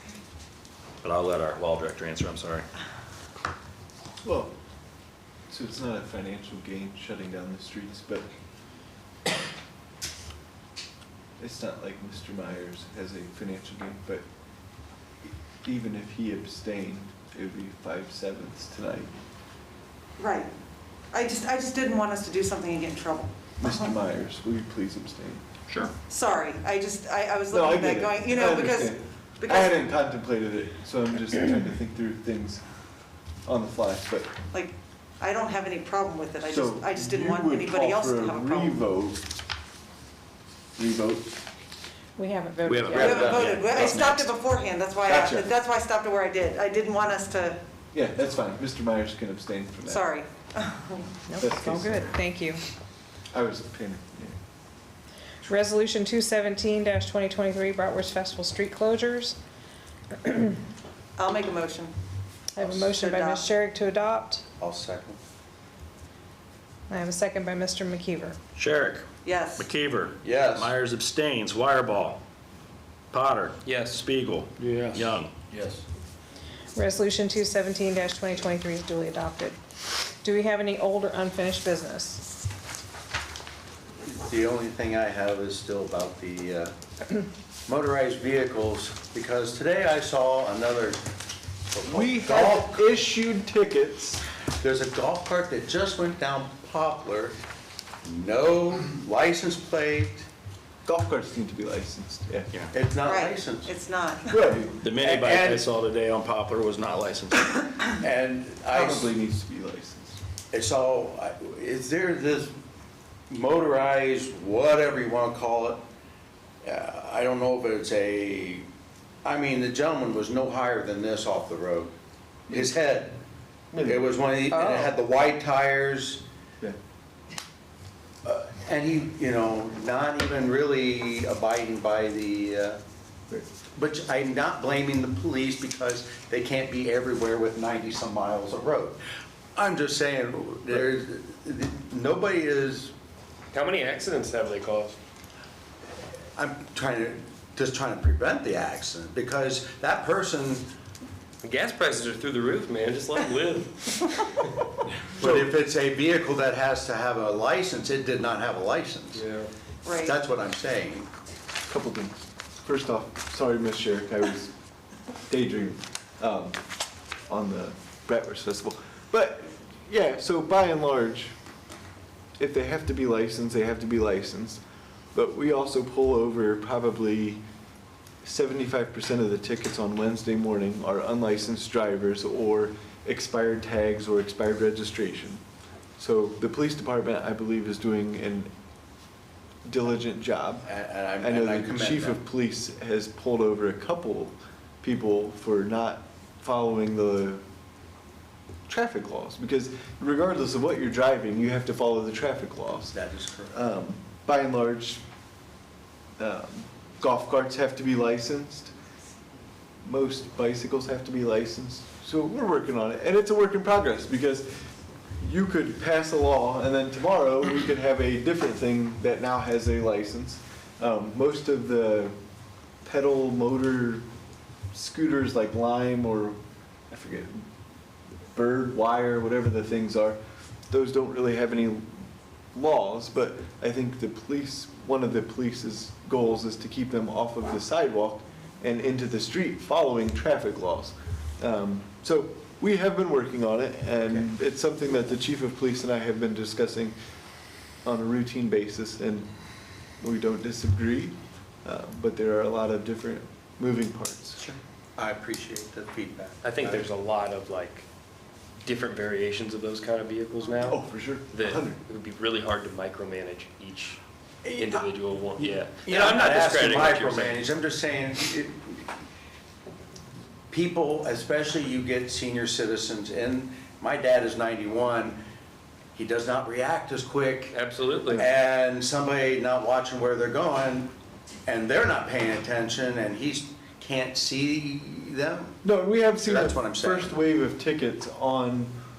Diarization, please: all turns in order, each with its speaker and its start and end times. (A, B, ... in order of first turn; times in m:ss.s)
0:01.0-0:02.7 A
0:04.2-0:04.5 B
0:05.5-0:08.3 B
0:11.4-0:14.2 B
0:15.2-0:19.1 B
0:20.2-0:20.5 C
0:21.1-0:23.9 C
0:23.6-0:25.4 B
0:25.7-0:25.9 A
0:26.1-0:29.8 C
0:27.5-0:32.6 B
0:33.4-0:34.3 B
0:34.5-0:38.8 C
0:36.5-0:39.3 B
0:40.8-0:41.4 B
0:42.2-0:43.7 D
0:42.7-0:44.3 A
0:42.9-0:43.9 E
0:43.0-0:47.6 C
0:45.1-0:45.5 B
0:47.9-0:50.1 B
0:49.9-0:51.1 C
0:51.3-0:52.6 D
0:51.4-0:52.1 B
0:53.3-0:54.4 B
0:55.4-0:59.4 D
1:00.2-1:00.6 D
1:01.2-1:01.9 C
1:02.5-1:04.4 D
1:02.6-1:03.5 C
1:04.6-1:05.2 E
1:06.9-1:08.4 D
1:08.6-1:09.0 A
1:09.2-1:09.7 C
1:09.6-1:12.2 A
1:10.2-1:10.7 E
1:13.1-1:15.3 A
1:13.6-1:14.0 F
1:14.6-1:15.8 E
1:16.8-1:22.2 D
1:24.0-1:26.7 E
1:27.7-1:31.0 E
1:31.7-1:32.8 E
1:31.9-1:34.2 B
1:34.6-1:37.4 E
1:38.0-1:40.3 E
1:40.8-1:42.5 B
1:42.7-1:43.7 E
1:43.0-1:44.6 C
1:44.3-1:44.8 B
1:44.8-1:47.7 A
1:45.0-1:45.7 E
1:47.9-1:49.1 E
1:48.7-1:50.2 B
1:50.5-1:52.5 E
1:53.3-1:55.8 E
1:56.6-1:58.7 E
1:59.2-2:01.9 E
2:02.5-2:03.2 E
2:03.7-2:04.0 B
2:03.8-2:06.2 E
2:04.5-2:04.9 C
2:08.2-2:12.8 E
2:13.8-2:19.0 E
2:19.6-2:22.9 E
2:23.5-2:25.0 F
2:26.4-2:30.7 E
2:31.4-2:34.4 F
2:35.2-2:39.2 E
2:35.2-2:35.5 B
2:39.1-2:39.5 F
2:39.8-2:40.2 C
2:40.0-2:41.1 E
2:41.7-2:44.5 B
2:45.3-2:46.6 B
2:47.3-2:51.3 B
2:52.4-2:54.6 B
2:55.1-2:57.4 B
2:58.2-3:05.4 B
3:06.0-3:08.5 B
3:09.7-3:10.7 B
3:10.7-3:12.2 E
3:11.2-3:17.4 B
3:18.7-3:23.0 B
3:22.9-3:23.6 E
3:23.5-3:25.0 B
3:26.2-3:28.7 B
3:29.8-3:34.6 B
3:35.2-3:42.2 B
3:42.8-3:44.0 B
3:44.7-3:46.4 B
3:46.9-3:47.5 B
3:48.3-4:07.0 B
4:07.8-4:09.3 B
4:10.0-4:14.4 B
4:14.4-4:16.9 E
4:16.4-4:17.9 F
4:18.6-4:27.4 F
4:20.6-4:21.8 B
4:24.4-4:28.9 E
4:30.5-4:35.2 E
4:36.0-4:37.6 E
4:37.5-4:38.3 F
4:38.1-4:40.9 E
4:41.5-4:45.6 E
4:45.6-4:48.7 B
4:46.2-4:47.2 E